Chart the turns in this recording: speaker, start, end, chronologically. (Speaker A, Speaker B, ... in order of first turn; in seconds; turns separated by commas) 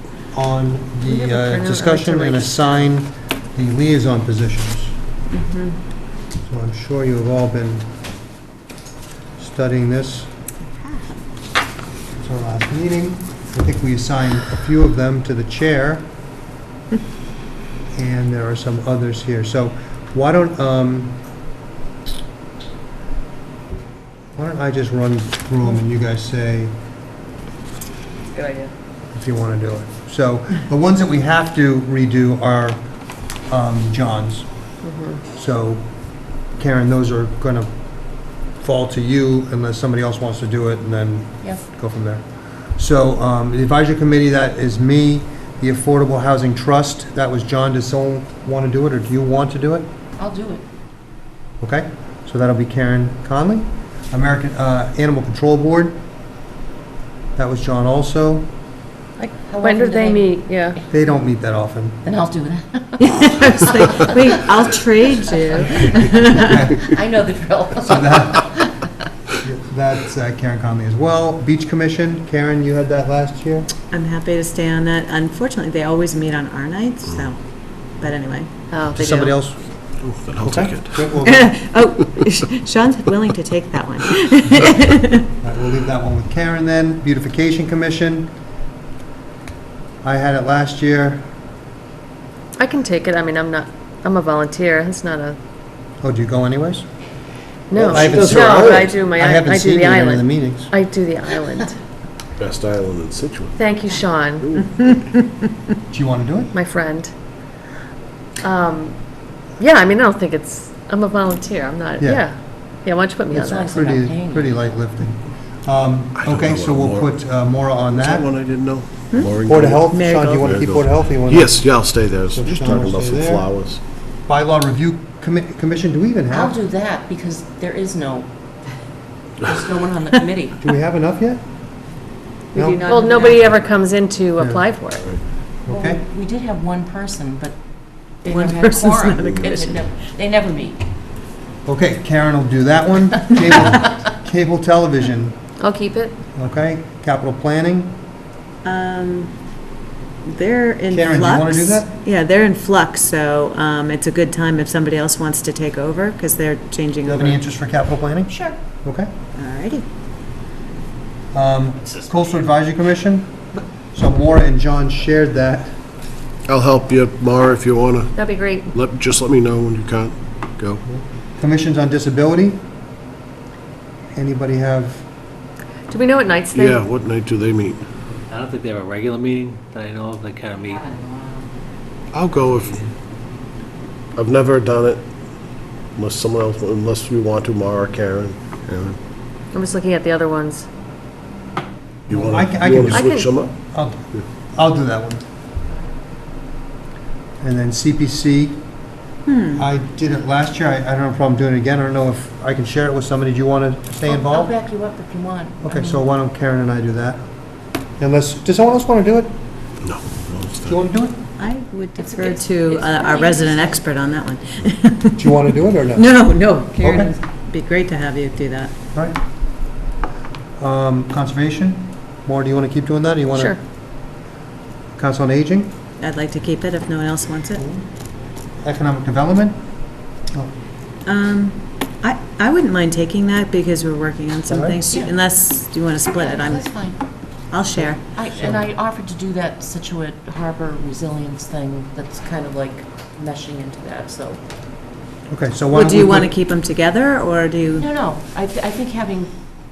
Speaker A: 0.3-5.0, Speaker B: 1.1-2.8, Speaker C: 5.3-5.8, Speaker A: 6.5-7.9, Speaker A: 9.4-10.3, Speaker C: 10.8-11.1, Speaker A: 12.2-16.1, Speaker A: 17.9-21.2, Speaker A: 24.4-26.8, Speaker B: 28.3-28.7, Speaker A: 29.1-32.8, Speaker A: 33.4-34.5, Speaker B: 34.8-35.2, Speaker A: 35.3-35.9, Speaker A: 36.5-49.9, Speaker D: 50.2-50.6, Speaker A: 51.6-56.0, Speaker A: 57.4-58.5, Speaker B: 59.2-60.8, Speaker D: 59.4-60.9, Speaker A: 60.9-62.0, Speaker D: 62.0-64.0, Speaker C: 63.0-66.6, Speaker D: 65.6-68.8, Speaker A: 66.2-66.9, Speaker A: 67.8-68.5, Speaker A: 69.4-73.7, Speaker C: 73.9-78.5, Speaker B: 78.7-79.4, Speaker A: 78.9-81.6, Speaker E: 80.0-81.1, Speaker C: 81.2-85.2, Speaker A: 85.4-88.3, Speaker A: 90.0-91.3, Speaker B: 92.6-95.4, Speaker A: 96.0-96.9, Speaker B: 97.7-101.8, Speaker E: 97.7-99.0, Speaker A: 97.9-100.7, Speaker E: 102.4-103.6, Speaker B: 103.6-104.5, Speaker E: 104.4-104.8, Speaker A: 105.9-106.5, Speaker B: 106.5-107.1, Speaker B: 108.4-109.0, Speaker B: 109.6-113.8, Speaker D: 113.3-114.7, Speaker A: 113.5-118.3, Speaker E: 116.2-117.2, Speaker E: 117.9-123.8, Speaker A: 119.5-123.7, Speaker C: 119.9-120.5, Speaker A: 124.3-126.5, Speaker D: 126.3-128.3, Speaker D: 129.4-130.6, Speaker A: 130.6-131.4, Speaker A: 132.5-132.8, Speaker B: 132.6-135.1, Speaker D: 132.8-133.4, Speaker A: 134.4-136.0, Speaker D: 135.7-137.6, Speaker D: 138.2-140.8, Speaker C: 138.3-139.8, Speaker A: 141.7-145.4, Speaker B: 145.6-146.2, Speaker A: 146.3-148.0, Speaker C: 148.6-149.3, Speaker C: 150.2-157.4, Speaker A: 150.9-151.9, Speaker A: 157.1-159.1, Speaker D: 158.3-158.6, Speaker C: 159.4-159.8, Speaker A: 161.3-165.8, Speaker E: 166.4-170.8, Speaker B: 168.2-168.7, Speaker A: 171.4-172.6, Speaker A: 174.2-175.1, Speaker B: 175.9-176.8, Speaker E: 176.5-177.8, Speaker F: 178.3-181.0, Speaker E: 182.1-182.8, Speaker F: 182.4-182.9, Speaker E: 184.2-185.0, Speaker E: 186.0-189.0, Speaker B: 189.5-190.7, Speaker E: 192.1-193.5, Speaker A: 192.1-195.2, Speaker B: 192.9-193.3, Speaker A: 197.4-198.6, Speaker C: 199.3-199.6, Speaker A: 199.6-204.5, Speaker D: 204.1-206.0, Speaker A: 205.6-207.2, Speaker A: 208.0-209.4, Speaker E: 209.8-210.8, Speaker A: 210.7-211.2, Speaker C: 211.4-215.4, Speaker D: 212.0-213.9, Speaker A: 215.2-216.1, Speaker C: 215.9-218.7, Speaker A: 216.8-217.1, Speaker A: 220.6-223.6, Speaker B: 223.3-223.6, Speaker A: 224.9-225.7, Speaker C: 226.0-227.6, Speaker A: 227.6-227.8, Speaker A: 228.6-230.5, Speaker C: 231.1-236.9, Speaker A: 234.5-234.8, Speaker D: 234.9-235.2, Speaker D: 236.1-237.0, Speaker C: 237.5-238.0, Speaker A: 237.8-238.7, Speaker D: 238.1-244.4, Speaker A: 245.3-246.3, Speaker C: 245.7-247.9, Speaker D: 247.8-249.3